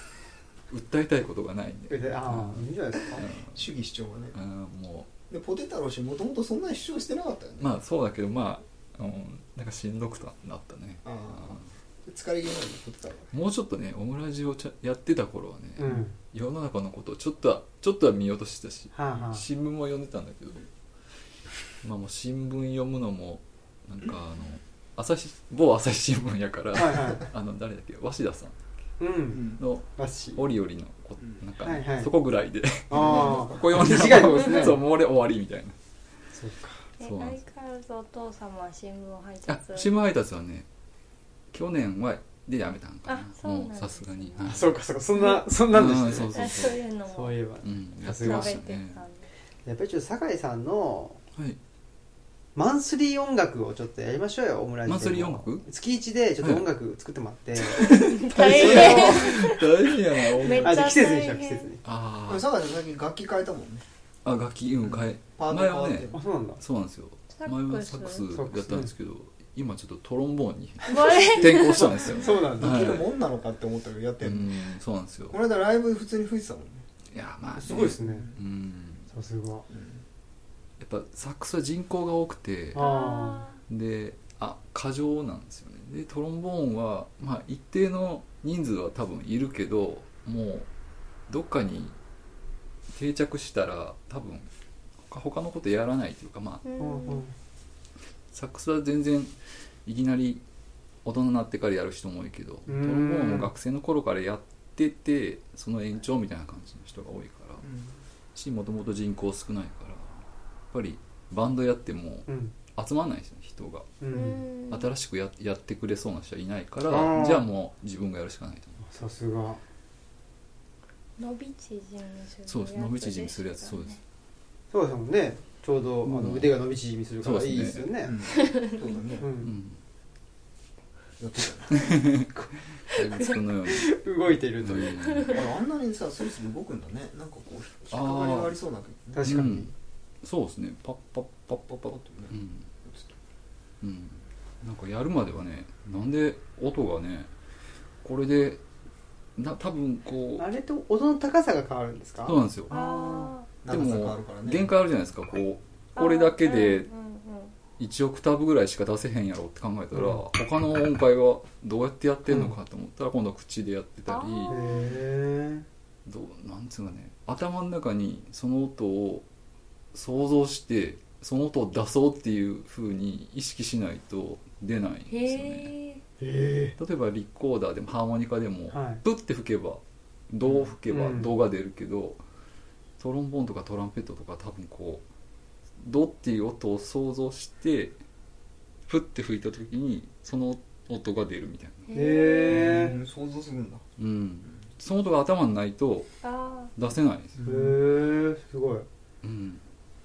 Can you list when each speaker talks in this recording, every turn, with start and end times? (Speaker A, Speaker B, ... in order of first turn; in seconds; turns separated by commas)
Speaker A: 0.7-3.7, Speaker B: 1.9-3.2, Speaker C: 3.4-4.4, Speaker A: 4.3-5.1, Speaker C: 5.3-7.7, Speaker A: 7.6-11.7, Speaker C: 11.0-13.3, Speaker A: 13.3-20.7, Speaker B: 15.8-16.1, Speaker B: 18.9-19.4, Speaker A: 21.8-28.6, Speaker B: 26.7-27.2, Speaker B: 29.0-30.4, Speaker C: 29.3-29.6, Speaker A: 29.6-35.8, Speaker B: 31.6-32.1, Speaker B: 32.9-34.8, Speaker D: 33.0-33.5, Speaker B: 36.3-36.8, Speaker D: 37.0-39.9, Speaker A: 37.0-37.4, Speaker A: 39.5-40.7, Speaker A: 41.5-44.8, Speaker D: 43.1-44.6, Speaker B: 44.5-46.5, Speaker D: 45.2-45.4, Speaker A: 45.7-46.8, Speaker D: 46.1-47.4, Speaker B: 47.1-48.6, Speaker A: 47.6-49.0, Speaker D: 48.1-49.3, Speaker B: 49.7-51.2, Speaker B: 52.5-59.5, Speaker A: 54.9-55.6, Speaker A: 56.4-56.7, Speaker A: 57.6-61.0, Speaker D: 57.8-61.7, Speaker B: 60.6-61.8, Speaker A: 61.8-62.5, Speaker C: 62.2-63.9, Speaker A: 64.2-73.0, Speaker C: 64.8-66.2, Speaker B: 66.1-66.6, Speaker D: 67.3-68.3, Speaker B: 68.3-68.9, Speaker D: 70.8-72.3, Speaker B: 71.8-72.9, Speaker C: 72.6-74.5, Speaker A: 74.2-75.4, Speaker C: 75.3-76.9, Speaker A: 77.1-79.1, Speaker B: 77.5-78.3, Speaker C: 77.7-78.4, Speaker B: 79.1-79.7, Speaker C: 79.7-80.0, Speaker A: 80.8-82.8, Speaker B: 82.7-83.5, Speaker D: 82.8-83.6, Speaker A: 83.7-90.7, Speaker A: 91.3-92.0, Speaker A: 92.9-94.5, Speaker A: 95.1-96.6, Speaker D: 96.6-97.2, Speaker B: 96.8-97.3, Speaker A: 98.3-100.4, Speaker A: 101.0-107.6, Speaker B: 102.7-103.5, Speaker C: 107.6-107.9, Speaker A: 108.3-110.2, Speaker A: 110.7-114.0, Speaker B: 112.3-112.5, Speaker B: 114.0-114.4, Speaker D: 114.1-114.9, Speaker A: 114.7-118.8, Speaker B: 116.9-117.5, Speaker B: 118.8-119.6, Speaker D: 121.2-124.0, Speaker A: 122.5-124.0, Speaker B: 124.7-128.2, Speaker A: 126.0-126.6, Speaker A: 127.2-127.9, Speaker C: 128.0-129.3, Speaker D: 128.4-129.0, Speaker B: 129.2-129.6, Speaker A: 129.4-129.8, Speaker C: 131.2-131.8, Speaker A: 131.8-134.0, Speaker D: 132.9-133.4, Speaker B: 133.7-135.0, Speaker A: 134.6-135.4, Speaker D: 135.0-135.4, Speaker C: 135.3-139.5, Speaker A: 137.9-138.5, Speaker B: 139.1-139.7, Speaker A: 139.2-139.7, Speaker A: 140.2-142.7, Speaker C: 141.8-143.2, Speaker A: 143.8-147.3, Speaker A: 148.0-148.6, Speaker A: 149.4-150.5, Speaker B: 150.4-153.3, Speaker A: 152.3-152.7, Speaker D: 152.7-153.5, Speaker C: 153.6-154.7, Speaker A: 153.7-156.9, Speaker D: 156.0-157.5, Speaker A: 157.8-164.7, Speaker B: 159.9-160.2, Speaker B: 162.3-162.6, Speaker D: 164.1-164.9, Speaker B: 164.5-165.7, Speaker A: 166.1-169.2, Speaker A: 169.9-175.7, Speaker D: 175.1-176.0, Speaker B: 176.2-176.8, Speaker A: 176.8-182.2, Speaker B: 178.7-179.0, Speaker B: 180.9-181.3, Speaker A: 183.0-185.0, Speaker A: 185.8-188.0, Speaker A: 188.9-191.9, Speaker D: 191.9-192.8, Speaker B: 191.9-192.9, Speaker C: 192.5-193.8, Speaker A: 192.5-192.8, Speaker A: 194.0-196.1, Speaker D: 196.2-196.7, Speaker A: 196.8-197.4, Speaker C: 197.3-197.8, Speaker B: 197.4-198.9, Speaker A: 199.2-199.6